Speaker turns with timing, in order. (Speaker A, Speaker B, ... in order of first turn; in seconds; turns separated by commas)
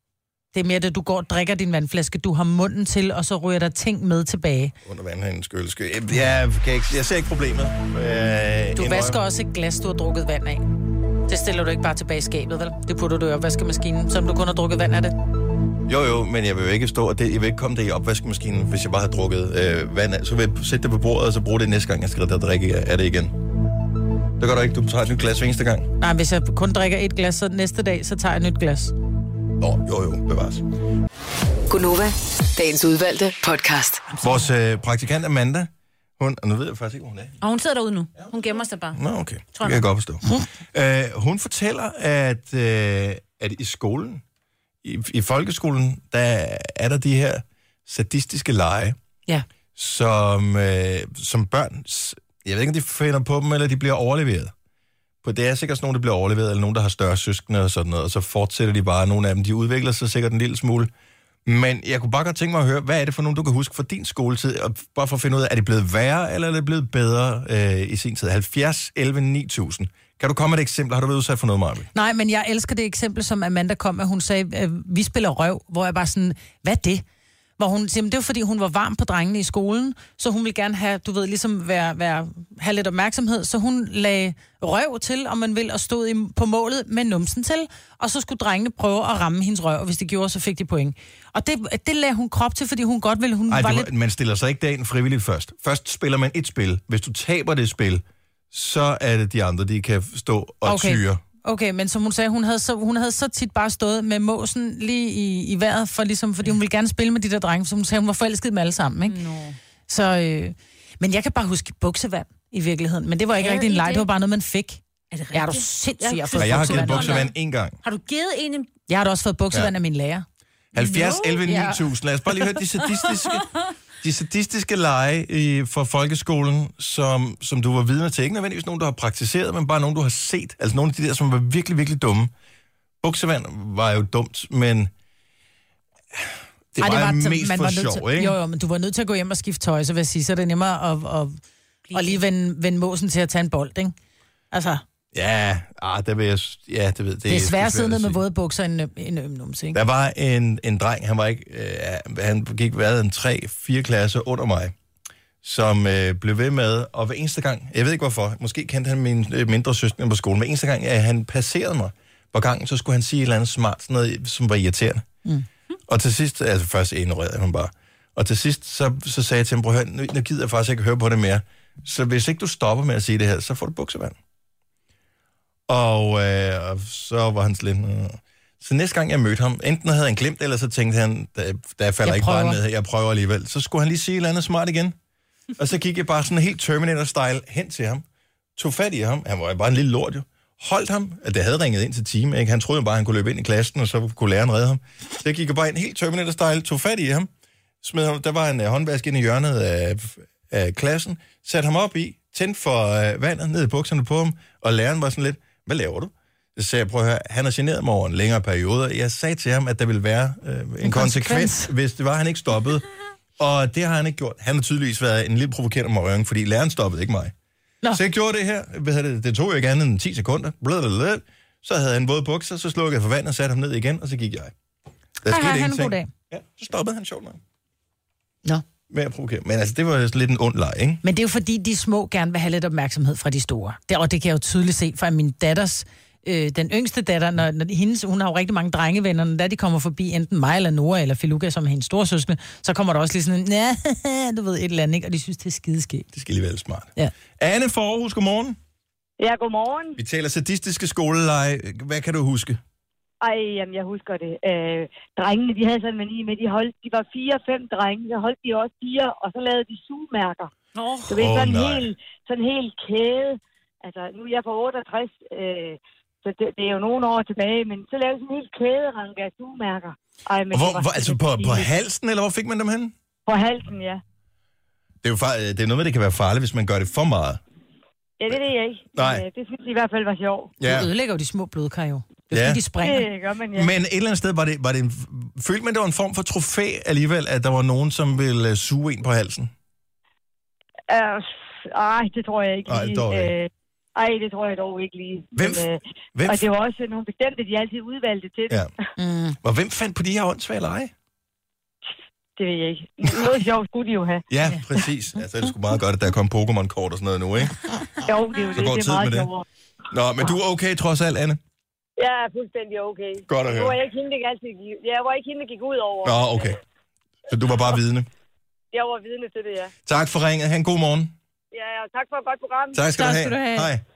Speaker A: 0.5-4.7, Speaker B: 4.8-9.2, Speaker A: 8.8-10.7, Speaker A: 11.3-15.2, Speaker B: 15.8-23.4, Speaker B: 24.4-25.9, Speaker A: 26.0-28.9, Speaker B: 29.6-30.6, Speaker C: 31.7-34.1, Speaker B: 34.2-37.4, Speaker D: 37.4-39.0, Speaker B: 38.9-44.2, Speaker D: 39.5-39.8, Speaker B: 44.8-49.0, Speaker B: 49.8-54.5, Speaker B: 55.2-60.9, Speaker B: 61.5-71.9, Speaker A: 71.9-77.0, Speaker A: 77.6-93.9, Speaker B: 93.5-101.2, Speaker A: 100.7-109.2, Speaker D: 109.1-109.6, Speaker A: 109.9-114.8, Speaker D: 113.4-114.1, Speaker D: 115.1-117.3, Speaker A: 115.3-117.2, Speaker B: 116.3-117.8, Speaker D: 117.8-118.7, Speaker A: 118.9-120.2, Speaker B: 120.7-123.5, Speaker A: 120.8-121.8, Speaker D: 121.0-121.4, Speaker B: 124.0-132.3, Speaker B: 133.0-134.9, Speaker B: 136.1-138.3, Speaker A: 136.8-141.4, Speaker D: 141.9-142.2, Speaker A: 141.9-143.9, Speaker A: 144.5-144.8, Speaker B: 145.1-148.2, Speaker A: 147.3-149.8, Speaker B: 149.7-154.7, Speaker B: 155.4-165.1, Speaker B: 165.9-174.2, Speaker B: 175.7-184.9, Speaker A: 182.0-182.6, Speaker B: 185.6-188.0, Speaker B: 188.6-197.3, Speaker B: 197.8-212.9, Speaker A: 210.8-211.7, Speaker B: 213.4-217.3, Speaker B: 217.9-224.5, Speaker B: 225.2-227.4, Speaker A: 225.2-226.1, Speaker B: 228.9-231.0, Speaker A: 231.0-246.1, Speaker B: 246.1-248.6, Speaker E: 249.2-250.0, Speaker B: 250.0-252.6, Speaker E: 253.2-260.5, Speaker D: 260.8-261.1, Speaker E: 261.1-271.7, Speaker B: 261.1-261.9, Speaker B: 270.5-272.9, Speaker E: 273.2-274.0, Speaker B: 275.0-277.4, Speaker E: 278.2-280.5, Speaker B: 278.9-279.2, Speaker B: 280.6-280.9, Speaker A: 280.6-283.1, Speaker B: 282.3-282.6, Speaker E: 282.8-283.7, Speaker B: 283.5-289.5, Speaker E: 290.9-298.6, Speaker B: 292.6-293.3, Speaker B: 295.4-296.5, Speaker A: 299.0-299.4, Speaker B: 299.4-300.9, Speaker E: 302.4-304.2, Speaker B: 304.3-307.6, Speaker E: 308.0-309.4, Speaker B: 308.5-309.3, Speaker B: 309.9-311.4, Speaker E: 312.0-316.5, Speaker B: 313.3-313.8, Speaker B: 316.0-316.6, Speaker B: 317.3-318.1, Speaker E: 318.7-319.7, Speaker B: 319.9-321.1, Speaker E: 321.5-322.9, Speaker B: 322.7-323.8, Speaker A: 322.9-323.7